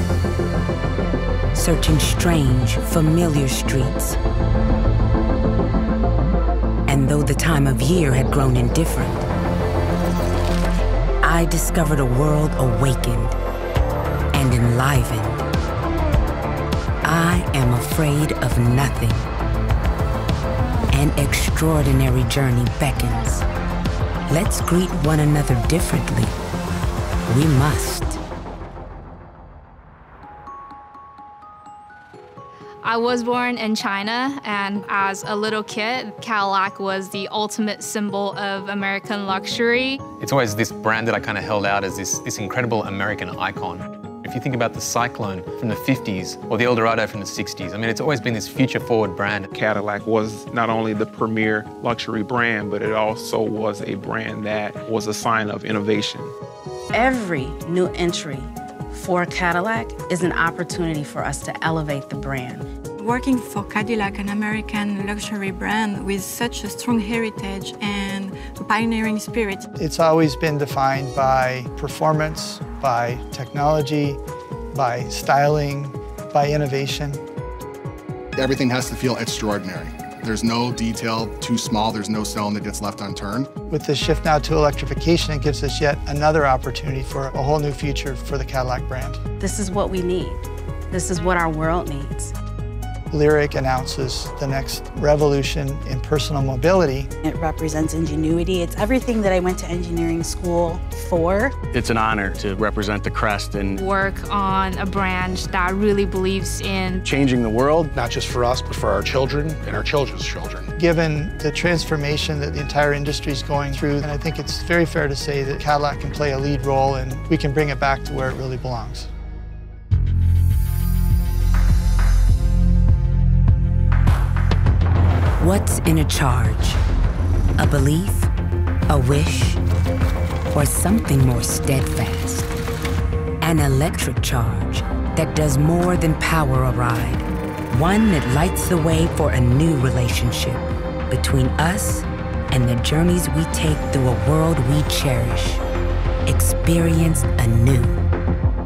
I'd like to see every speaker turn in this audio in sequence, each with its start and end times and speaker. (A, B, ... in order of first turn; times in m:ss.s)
0:01.5-0:04.2 A
0:06.9-0:09.2 A
0:11.2-0:13.4 A
0:14.3-0:15.4 A
0:17.0-0:19.3 A
0:20.9-0:23.4 A
0:24.3-0:26.3 A
0:27.3-0:28.2 A
0:32.8-0:40.0 B
0:40.2-0:49.5 C
0:49.5-0:56.3 D
0:56.9-1:02.6 E
1:03.0-1:09.6 F
1:09.8-1:14.2 G
1:14.7-1:17.2 G
1:18.4-1:23.5 H
1:23.7-1:29.2 G
1:29.4-1:32.3 E
1:33.1-1:37.1 G
1:37.2-1:41.5 I
1:41.7-1:43.8 J
1:43.8-1:47.0 B
1:47.0-1:47.9 J
1:48.0-1:50.7 K
1:50.8-1:59.1 G
2:05.4-2:06.8 A
2:07.6-2:08.3 A
2:08.9-2:09.6 A
2:10.5-2:12.5 A
2:13.4-2:25.6 A
2:26.3-2:28.0 A